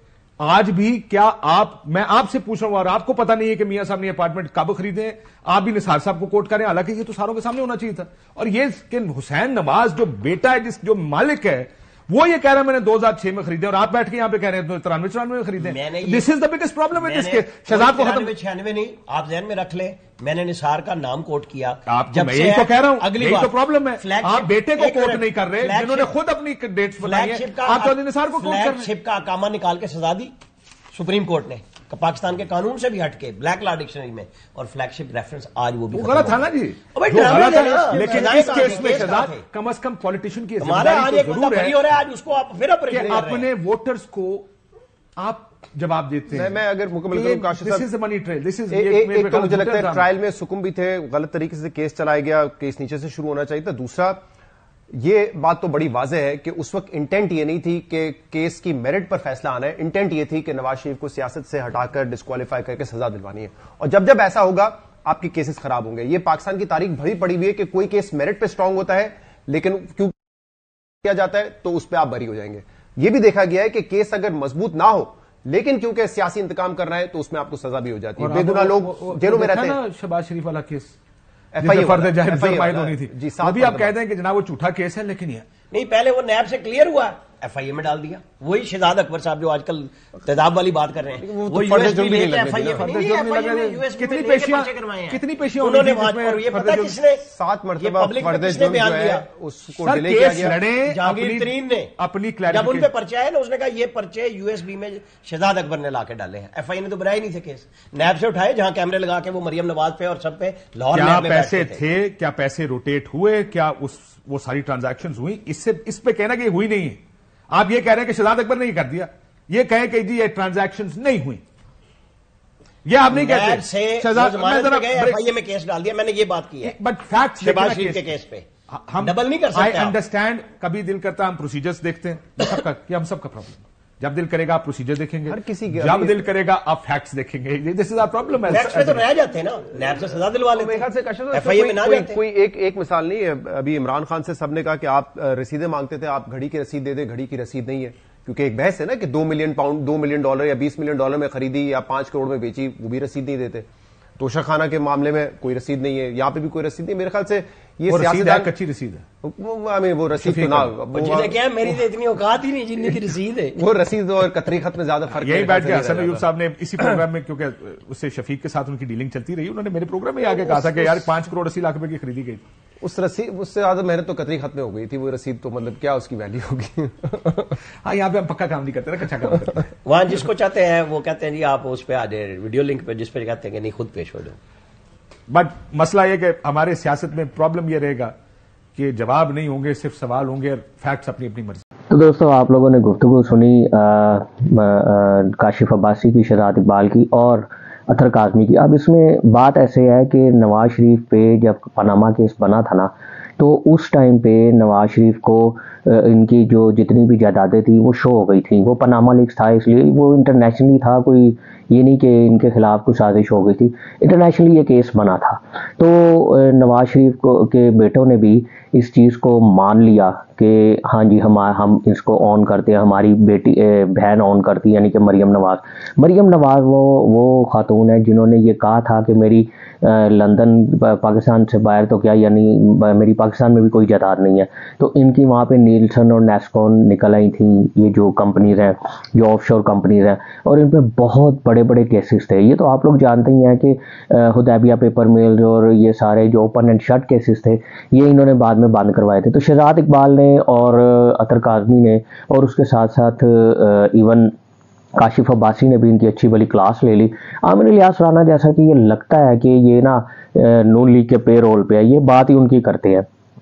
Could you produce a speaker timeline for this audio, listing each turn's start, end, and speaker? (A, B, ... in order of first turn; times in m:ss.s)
0:00.4-0:18.3 A
0:15.6-0:16.3 B
0:16.9-0:26.2 B
0:21.9-0:28.9 A
0:27.0-0:30.3 B
0:30.9-0:39.4 B
0:35.9-0:41.8 A
0:40.6-0:43.5 B
0:42.9-0:44.5 A
0:45.2-0:46.5 A
0:46.3-0:47.8 C
0:47.1-0:50.0 A
0:48.7-0:54.2 C
0:54.9-1:10.4 C
1:11.0-1:19.8 C
1:18.2-1:21.0 A
1:21.5-1:24.0 C
1:21.6-1:25.4 A
1:25.7-1:37.2 B
1:31.2-1:32.9 C
1:32.7-1:37.0 A
1:37.2-1:40.6 C
1:37.8-1:39.2 B
1:39.8-1:42.9 A
1:40.9-1:41.9 B
1:42.5-1:51.8 B
1:50.9-1:57.0 A
1:57.5-2:01.4 A
2:02.8-2:05.2 A
2:03.1-2:06.7 B
2:06.6-2:08.0 A
2:07.4-2:08.4 B
2:08.7-2:19.0 A
2:09.0-2:10.0 B
2:15.3-2:16.2 C
2:18.5-2:22.2 B
2:20.5-2:33.7 C
2:34.2-2:38.5 C
2:37.9-2:39.0 A
2:39.2-2:41.8 C
2:40.2-2:40.7 A
2:40.9-2:43.6 B
2:43.6-2:46.2 C
2:45.2-2:52.4 A
2:50.4-2:51.0 C
2:52.8-2:57.5 C
2:57.8-2:59.7 A
2:59.8-3:04.4 B
3:05.3-3:08.1 A
3:08.7-3:11.6 A
3:11.9-4:14.3 D
4:15.0-4:23.0 D